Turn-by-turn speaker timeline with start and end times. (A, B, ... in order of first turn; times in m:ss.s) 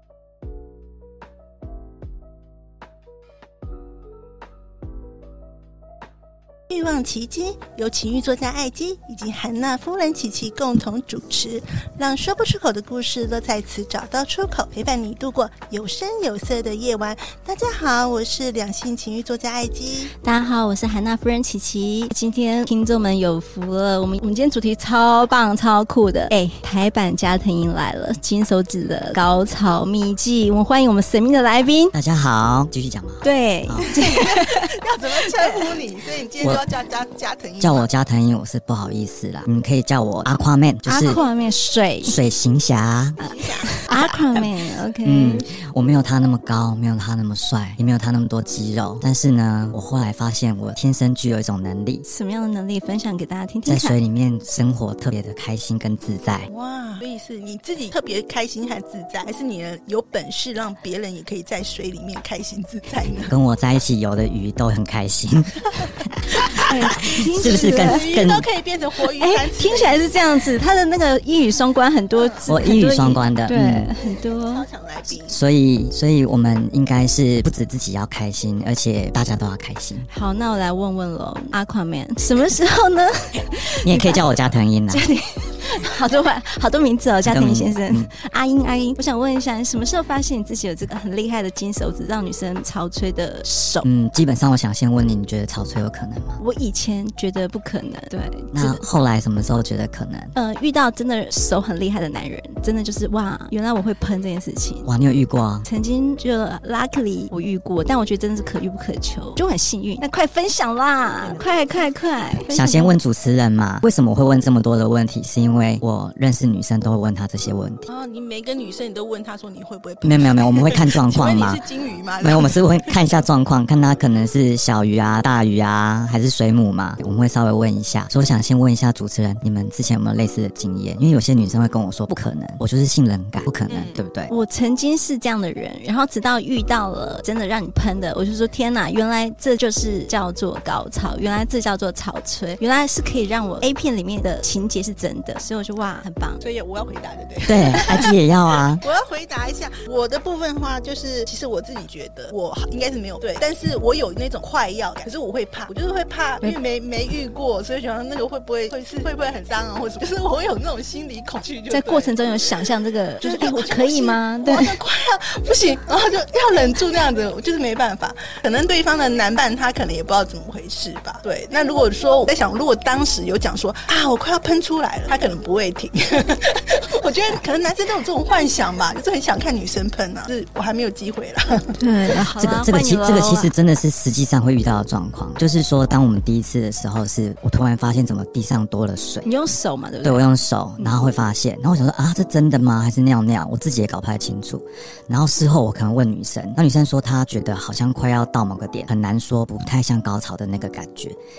0:06.7-0:20.1 A
0:20.2-0:31.9 B
0:31.9-0:33.9 C
0:33.2-0:34.7 B
0:33.8-0:37.9 A
0:35.3-0:35.7 B
0:37.6-0:41.2 C
0:40.9-0:42.2 B
0:41.1-0:41.4 A
0:42.0-0:43.2 C
0:43.2-0:45.5 B
0:43.3-0:44.0 A
0:45.0-0:52.0 C
0:52.1-0:54.0 B
0:53.7-0:56.5 C
0:56.5-1:03.3 A
1:03.3-1:08.5 C
1:06.7-1:08.3 B
1:07.4-1:10.1 A
1:09.1-1:14.7 B
1:12.2-1:12.5 A
1:12.5-1:13.9 C
1:14.0-1:15.4 A
1:15.3-1:20.1 C
1:20.1-1:24.2 B
1:23.8-1:25.1 C
1:24.9-1:33.9 B
1:27.2-1:28.1 C
1:33.8-1:36.4 C
1:36.4-1:38.8 B
1:38.5-1:40.3 C
1:40.4-1:44.9 B
1:44.8-1:45.7 C
1:45.6-1:53.0 B
1:52.5-1:57.9 C
1:57.9-2:02.9 A
2:00.0-2:01.6 C
2:02.2-2:14.3 C
2:13.7-2:14.0 A
2:14.3-2:26.4 B
2:26.4-2:28.2 A
2:27.5-2:28.8 C
2:28.8-2:42.5 A
2:41.7-2:44.8 B
2:43.2-3:01.7 A
3:01.8-3:03.5 B
3:02.4-3:09.3 C
3:09.2-3:10.3 B
3:10.0-3:21.2 C
3:10.8-3:11.1 B